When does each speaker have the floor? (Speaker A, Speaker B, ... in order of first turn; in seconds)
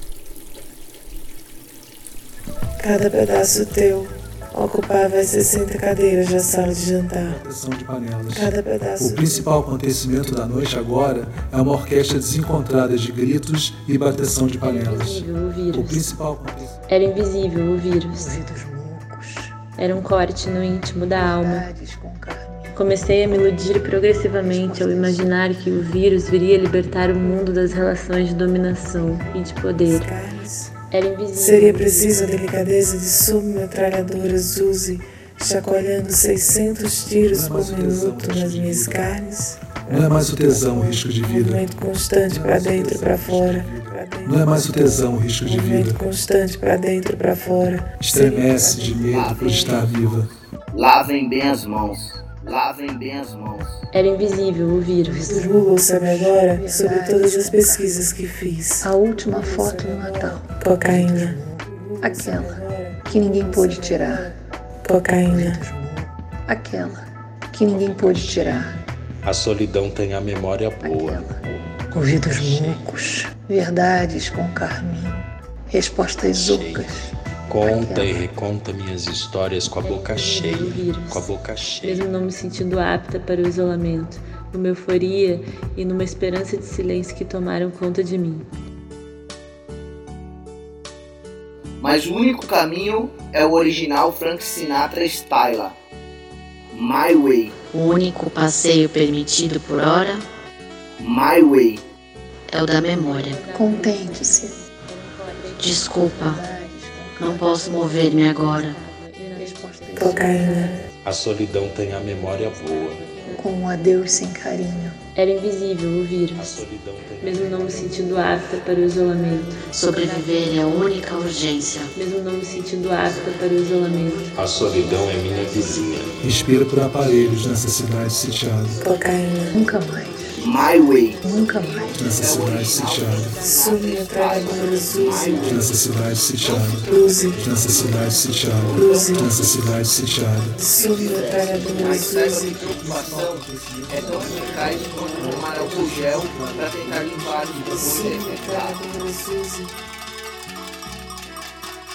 Speaker A: 2.8-7.4, 8.3-9.5, 29.8-30.7, 31.4-49.8, 55.2-64.3, 64.8-65.6, 110.0-110.8, 128.8-129.6, 133.3-135.4, 136.8-137.5, 138.7-139.4, 140.6-142.7, 147.7-149.7
Speaker B: 7.2-16.8, 37.3-39.1, 39.9-41.6, 42.3-46.0, 48.0-50.3, 126.2-128.8, 131.9-133.4, 135.3-140.6, 142.6-148.4
Speaker C: 14.6-16.1, 16.9-18.4, 19.8-21.7, 22.8-30.1, 30.9-32.4, 53.9-55.3, 79.8-81.3, 81.8-88.5, 102.9-106.5, 108.0-110.5, 112.0-113.6, 115.2-116.6, 117.2-121.0, 122.0-124.3
Speaker D: 18.1-19.6, 21.2-25.3, 55.0-57.9, 58.8-64.3, 65.3-68.7, 70.8-77.1, 77.6-78.3, 103.5-104.5, 106.0-108.7, 109.3-110.6, 113.2-115.0, 123.6-125.6, 129.5-130.3, 131.2-132.3
Speaker E: 49.1-50.0, 50.7-53.9, 91.8-95.8, 96.7-97.5, 101.0-101.8, 130.4-131.2, 132.1-135.7, 136.4-136.8, 137.6-139.7, 140.6-148.8
Speaker F: 67.7-68.7, 69.2-71.3, 72.3-72.8, 76.3-76.9, 77.5-82.1, 111.0-113.0, 116.4-118.4, 124.3-126.2, 135.2-135.6
Speaker G: 97.7-100.3, 102.5-103.4, 105.6-106.4, 107.2-108.8, 119.7-121.9